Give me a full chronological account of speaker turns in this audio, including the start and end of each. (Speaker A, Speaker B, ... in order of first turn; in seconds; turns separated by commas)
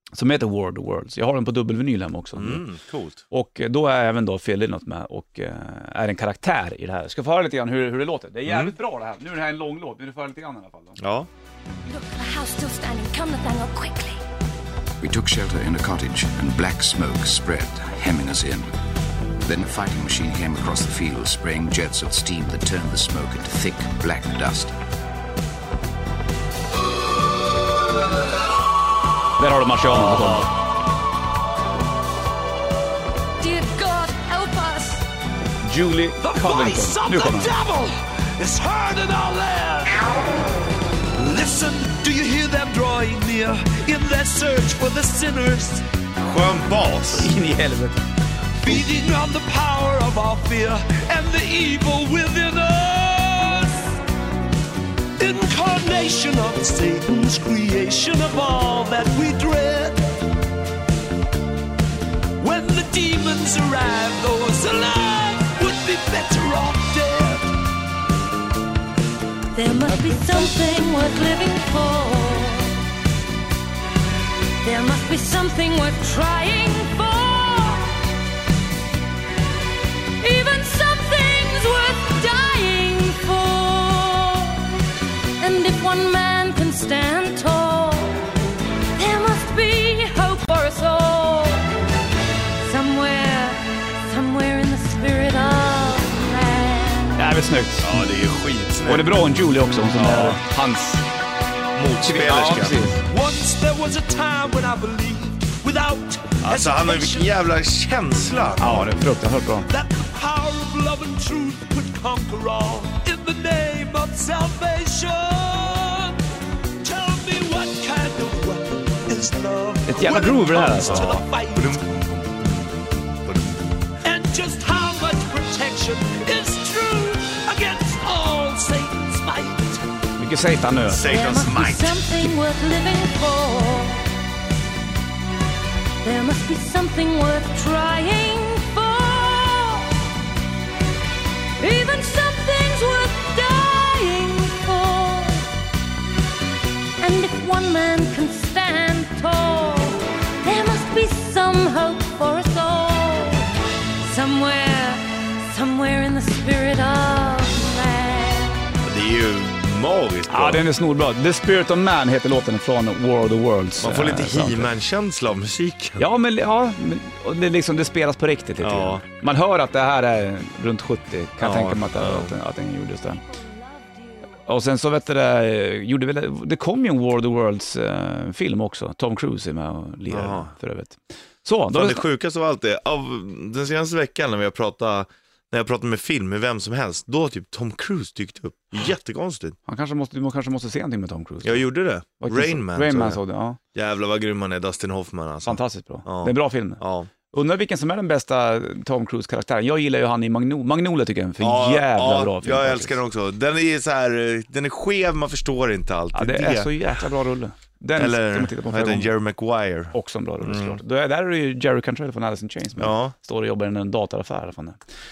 Speaker A: 0.1-2.6, Speaker B: 2.4-3.2, Speaker A: 3.3-11.0, Speaker B: 8.4-8.7, Speaker B: 11.0-11.3, Speaker C: 11.8-14.2, Speaker D: 15.0-18.7, Speaker D: 19.4-24.7, Speaker A: 29.4-30.5, Speaker B: 30.1-30.4, Speaker C: 33.4-35.1, Speaker A: 35.6-37.5, Speaker E: 36.2-40.2, Speaker E: 41.1-45.8, Speaker B: 46.2-47.3, Speaker A: 47.1-48.0, Speaker E: 48.6-53.9, Speaker E: 55.2-60.0, Speaker E: 62.4-67.5, Speaker C: 69.5-72.8, Speaker C: 74.6-78.0, Speaker C: 80.2-84.8, Speaker C: 85.4-88.3, Speaker C: 89.0-91.7, Speaker C: 92.6-97.2, Speaker A: 97.2-97.9, Speaker B: 97.8-99.2, Speaker A: 98.8-101.0, Speaker B: 99.9-100.4, Speaker B: 101.7-102.8, Speaker A: 102.0-103.0, Speaker E: 103.0-107.3, Speaker B: 106.4-108.9, Speaker A: 108.6-109.7, Speaker E: 109.7-116.2, Speaker E: 116.8-121.8, Speaker A: 119.8-121.2, Speaker B: 120.8-122.5, Speaker E: 124.0-129.8, Speaker A: 130.2-131.1, Speaker B: 130.9-132.0, Speaker C: 131.0-134.1, Speaker C: 136.0-140.0, Speaker C: 141.6-145.5, Speaker C: 147.0-153.5, Speaker C: 154.0-158.6, Speaker B: 158.8-160.6, Speaker A: 160.3-164.7, Speaker B: 163.8-166.1, Speaker A: 166.0-173.2, Speaker B: 168.6-169.0, Speaker B: 171.4-172.3, Speaker A: 174.4-182.0, Speaker B: 180.1-180.5, Speaker B: 181.7-189.6, Speaker A: 189.7-191.7, Speaker B: 191.4-193.2, Speaker A: 192.2-193.6, Speaker B: 193.7-197.1, Speaker A: 195.4-203.0, Speaker B: 201.4-206.7, Speaker A: 206.1-209.1, Speaker B: 207.9-210.8, Speaker A: 209.9-214.8, Speaker B: 212.8-213.1